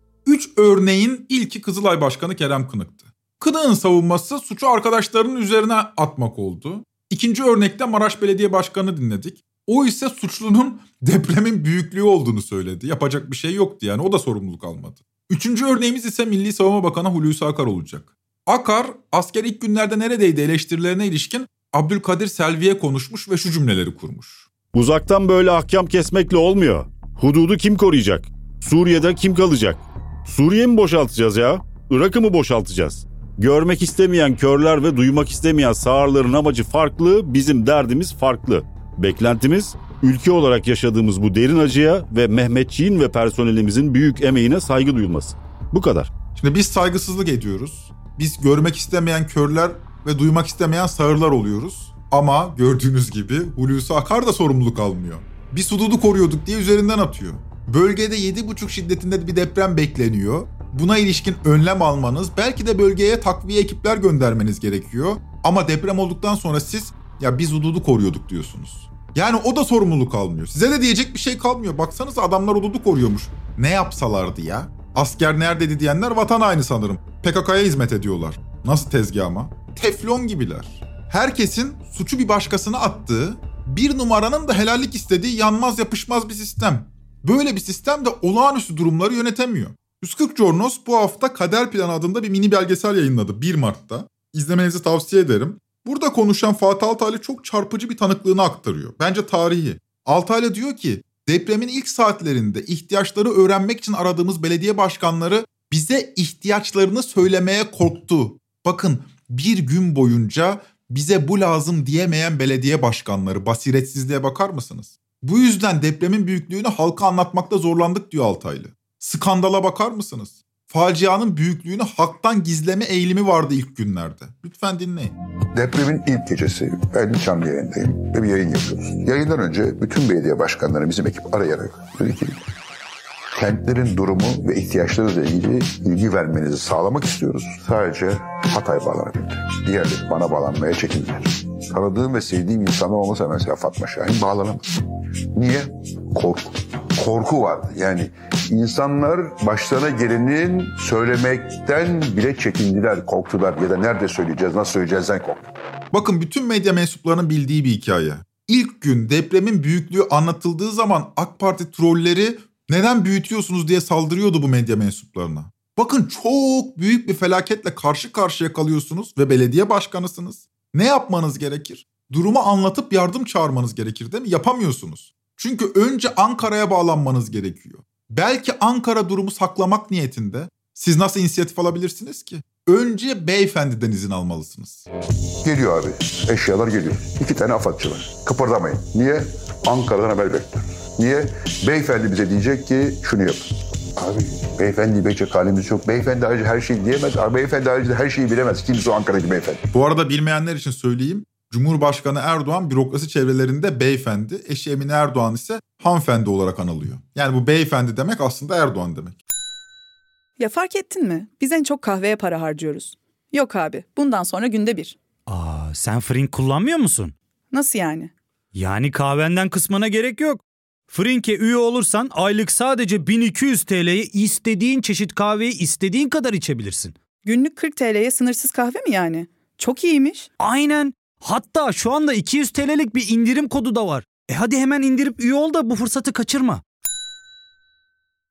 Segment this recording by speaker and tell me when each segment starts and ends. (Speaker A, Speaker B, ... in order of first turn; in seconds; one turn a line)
Speaker A: 0.2-24.5
Speaker B: 24.7-46.1
Speaker A: 46.3-125.1
Speaker C: 125.5-132.4
Speaker C: 133.3-144.6
Speaker C: 145.3-155.5
Speaker A: 155.9-184.8
Speaker C: 185.4-199.6
Speaker A: 199.7-209.2
Speaker D: 210.4-214.9
Speaker E: 215.3-217.1
Speaker D: 217.5-218.1
Speaker E: 218.5-226.9
Speaker D: 227.2-230.3
Speaker E: 230.4-236.6